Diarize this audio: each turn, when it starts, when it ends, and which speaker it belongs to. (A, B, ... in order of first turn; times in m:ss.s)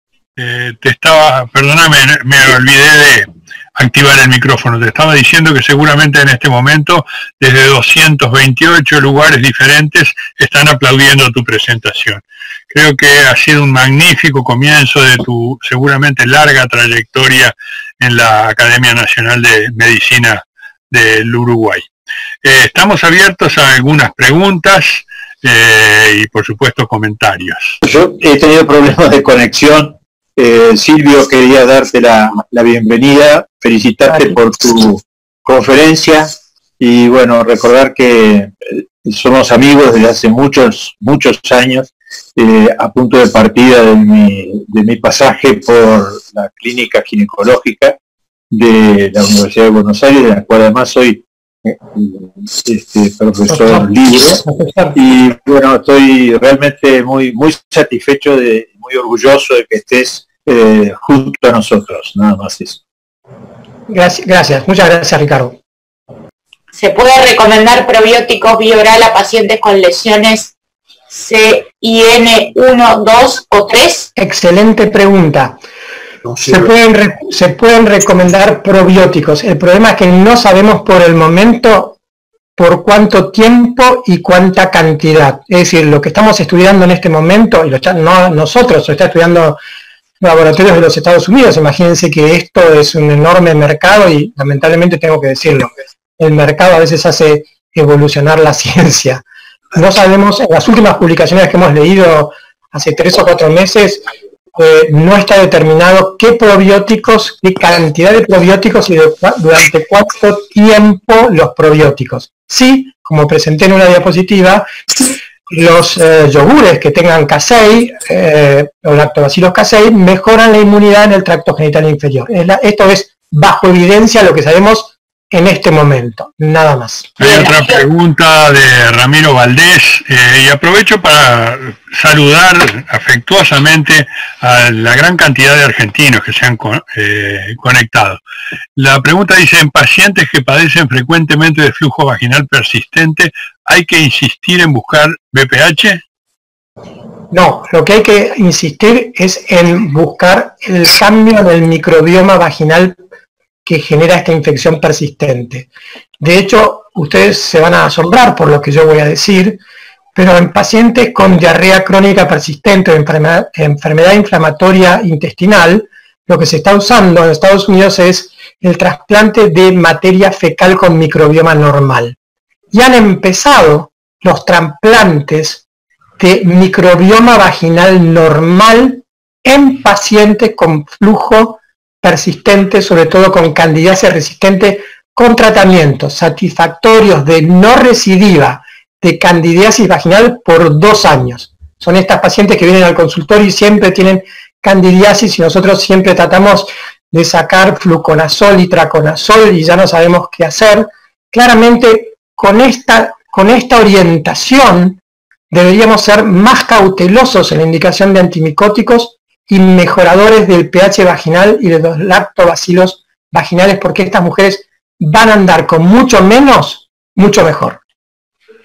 0:00.4-0:21.9 A
0:22.4-0:27.8 A
0:27.8-0:48.0 B
0:48.5-0:51.2 B
0:51.9-0:54.4 B
0:53.5-0:55.0 C
0:54.9-1:02.8 B
1:03.9-1:05.6 C
1:06.7-1:10.5 D
1:11.1-1:14.1 D
1:14.2-1:15.6 C
1:16.4-1:22.0 C
1:22.6-1:29.6 C
1:30.2-1:39.2 C
1:39.7-1:44.0 C
1:44.5-1:54.7 C
1:55.5-2:07.1 C
2:07.2-2:18.2 A
2:07.2-2:07.8 D
2:18.8-2:26.0 A
2:27.3-2:33.0 C
2:33.6-2:35.7 C
2:36.2-2:39.6 C
2:40.2-2:52.2 C
2:52.7-2:55.6 C
2:56.2-3:37.8 C